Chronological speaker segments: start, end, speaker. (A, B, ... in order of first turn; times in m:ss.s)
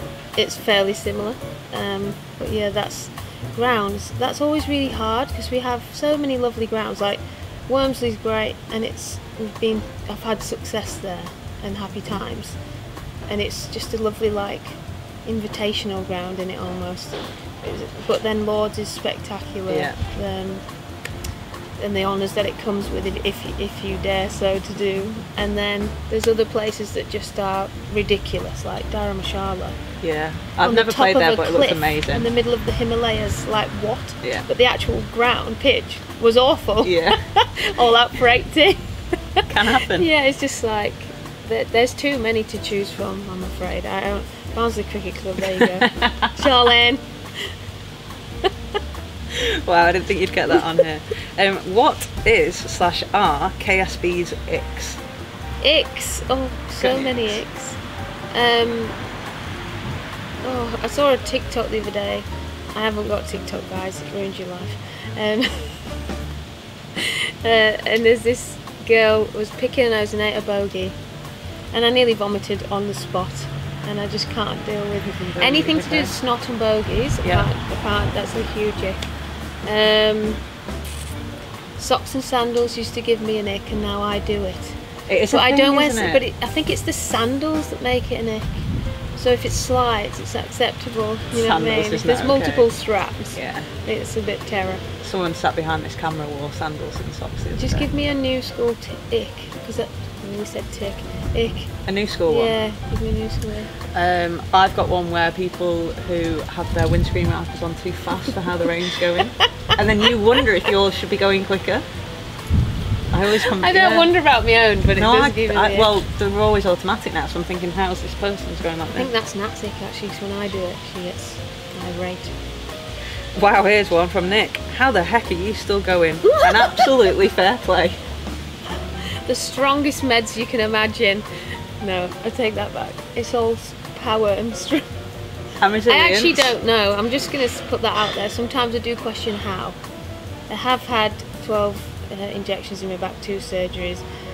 0:00.4-0:12.6 A
0:13.3-0:20.7 A
0:19.7-0:20.0 B
0:21.8-0:29.8 A
0:30.0-0:32.3 B
0:30.6-0:47.5 A
0:34.2-0:34.5 B
0:36.8-0:37.2 B
0:39.5-0:40.1 B
0:45.6-0:46.5 B
0:49.3-0:55.0 B
0:55.6-0:57.8 A
0:56.8-0:57.4 B
0:58.3-0:59.0 A
1:00.4-1:06.0 A
1:07.0-1:11.0 A
1:11.7-1:20.4 A
1:15.0-1:16.1 B
1:17.2-1:17.5 B
1:21.8-1:34.8 A
1:25.1-1:26.2 B
1:31.3-1:32.7 B
1:33.3-1:33.7 B
1:35.0-1:37.9 B
1:37.5-1:43.7 A
1:41.9-1:42.6 B
1:43.9-1:51.8 B
1:53.1-1:54.1 B
1:53.4-1:56.0 A
1:55.0-1:59.1 B
1:58.9-2:02.3 A
2:03.4-2:08.0 B
2:06.3-2:06.9 A
2:09.1-2:11.3 A
2:11.8-2:14.9 A
2:15.6-2:16.5 B
2:15.9-2:19.8 A
2:20.5-2:24.0 A